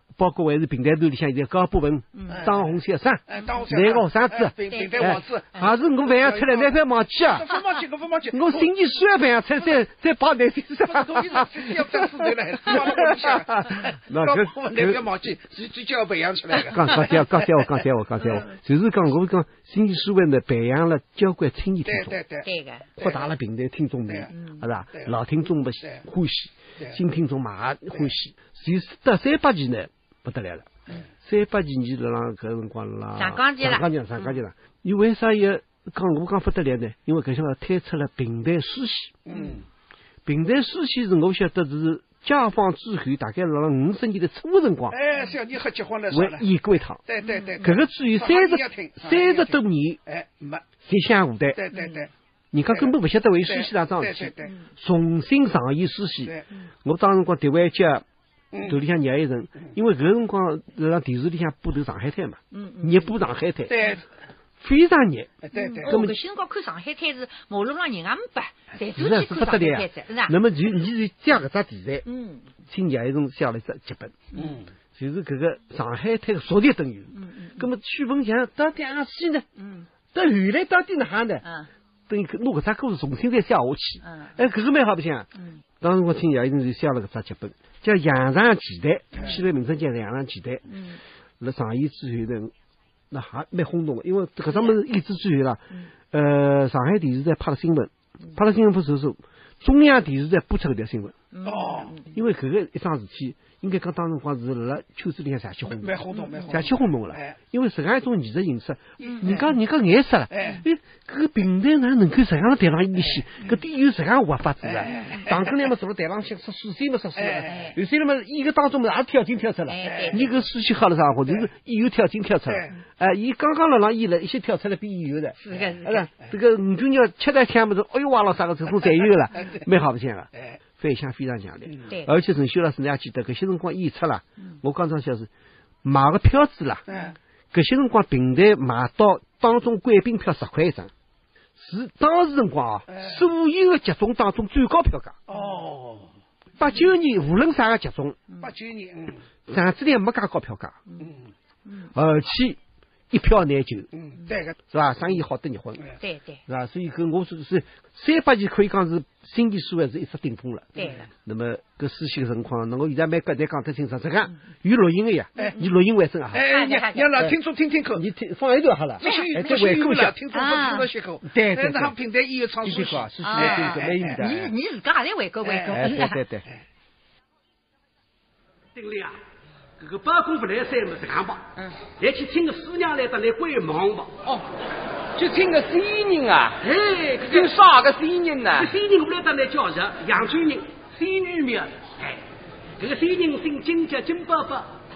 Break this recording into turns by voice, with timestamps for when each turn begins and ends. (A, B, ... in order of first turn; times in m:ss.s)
0:00.2-0:07.5 A
0:02.2-0:02.4 B
0:02.3-0:02.7 C
0:03.3-0:06.7 C
0:04.7-0:05.0 B
0:07.3-0:08.7 C
0:08.3-0:15.0 A
0:10.9-0:17.2 C
0:16.6-0:22.2 A
0:21.9-0:22.5 C
0:22.4-0:22.9 B
0:23.0-0:23.3 C
0:23.0-0:39.2 A
0:24.3-0:24.6 B
0:33.2-0:34.4 B
0:39.3-0:39.6 C
0:40.3-0:45.0 A
0:44.9-0:46.4 C
0:46.1-0:47.0 A
0:47.1-0:50.6 C
0:47.2-0:47.6 B
0:47.6-0:50.0 A
0:50.8-0:51.6 A
0:51.6-0:52.1 C
0:51.7-0:52.0 B
0:52.5-0:58.0 A
0:53.4-0:54.5 C
0:58.6-1:03.7 A
1:02.5-1:03.1 B
1:03.7-1:04.0 C
1:04.6-1:06.2 A
1:05.4-1:06.0 C
1:05.6-1:10.4 B
1:08.9-1:12.1 A
1:12.1-1:12.5 B
1:12.6-1:14.2 A
1:14.4-1:14.7 C
1:15.0-1:19.5 A
1:17.2-1:17.7 B
1:19.6-1:19.9 B
1:20.1-1:21.4 A
1:21.4-1:21.7 B
1:22.1-1:25.3 A
1:24.0-1:24.3 B
1:25.8-1:30.7 A
1:30.7-1:31.0 B
1:31.4-1:32.5 A
1:33.1-1:41.2 A
1:34.5-1:34.8 B
1:41.3-1:42.1 B
1:41.4-1:42.0 C
1:42.1-2:15.3 A
1:45.8-1:47.4 C
1:46.2-1:46.4 B
1:49.0-1:49.4 B
1:49.1-1:49.5 C
1:50.3-1:50.6 C
1:54.7-1:55.4 C
1:57.2-1:57.5 C
1:57.5-1:57.8 B
1:59.7-2:00.4 B
2:05.4-2:06.1 B
2:15.8-2:16.8 A
2:16.9-2:17.2 C
2:17.5-2:20.9 A
2:21.6-2:25.2 A
2:25.3-2:26.1 C
2:26.6-2:28.2 A
2:28.4-2:29.2 C
2:29.5-2:30.8 A
2:31.9-2:32.6 A
2:33.1-2:33.9 A
2:33.9-2:34.6 C
2:34.7-2:35.8 A
2:36.0-2:36.4 B
2:36.5-2:46.5 A
2:40.8-2:41.1 B
2:45.4-2:45.7 B
2:46.3-2:48.0 C
2:46.4-2:47.2 B
2:48.0-2:50.2 A
2:49.0-2:54.2 C
2:49.0-2:49.7 B
2:50.3-2:50.9 B
2:51.3-2:52.0 A
2:52.6-2:54.5 A
2:53.2-2:56.2 B
2:55.7-2:56.4 A
2:58.8-2:59.1 D
2:59.8-3:04.1 D
3:05.2-3:06.6 E
3:06.6-3:07.6 D
3:07.2-3:08.7 E
3:08.6-3:12.2 D
3:12.8-3:14.7 D